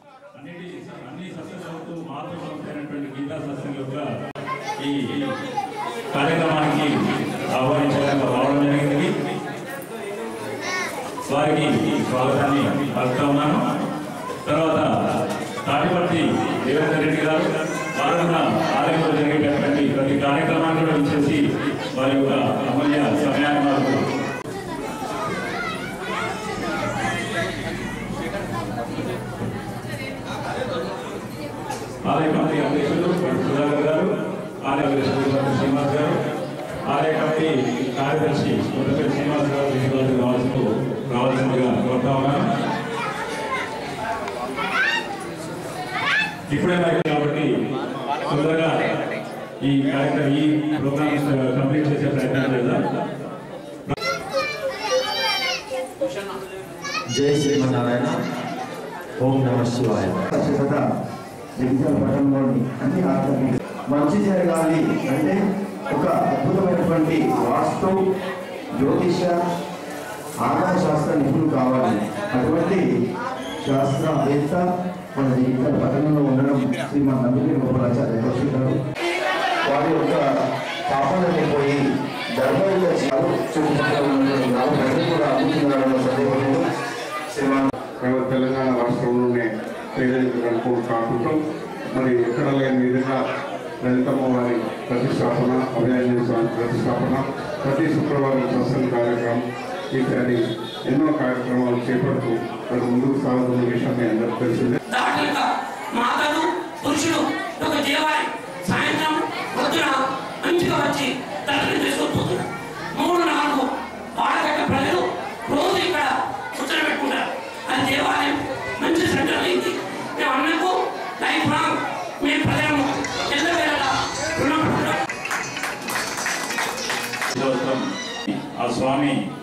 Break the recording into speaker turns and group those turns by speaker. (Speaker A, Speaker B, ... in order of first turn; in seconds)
Speaker A: 0.3-4.1, 4.8-5.3, 6.1-6.9, 7.5-9.1, 11.3-13.6, 14.5-14.9, 15.6-21.4, 21.9-24.1, 32.0-34.1, 34.6-36.2, 36.9-42.5, 46.5-47.5, 48.3-49.0, 49.6-52.8, 127.3-129.2
Speaker B: 57.1-58.1, 59.2-60.2
Speaker C: 60.3-60.8, 61.6-65.3, 65.9-68.0, 68.8-69.4, 70.4-72.8, 73.6-74.6, 75.2-78.8, 79.7-80.2, 80.9-81.8, 82.4-86.6, 87.3-87.7
Speaker D: 88.0-91.4, 91.9-93.2, 93.8-99.4, 99.9-104.8
Speaker E: 104.9-125.0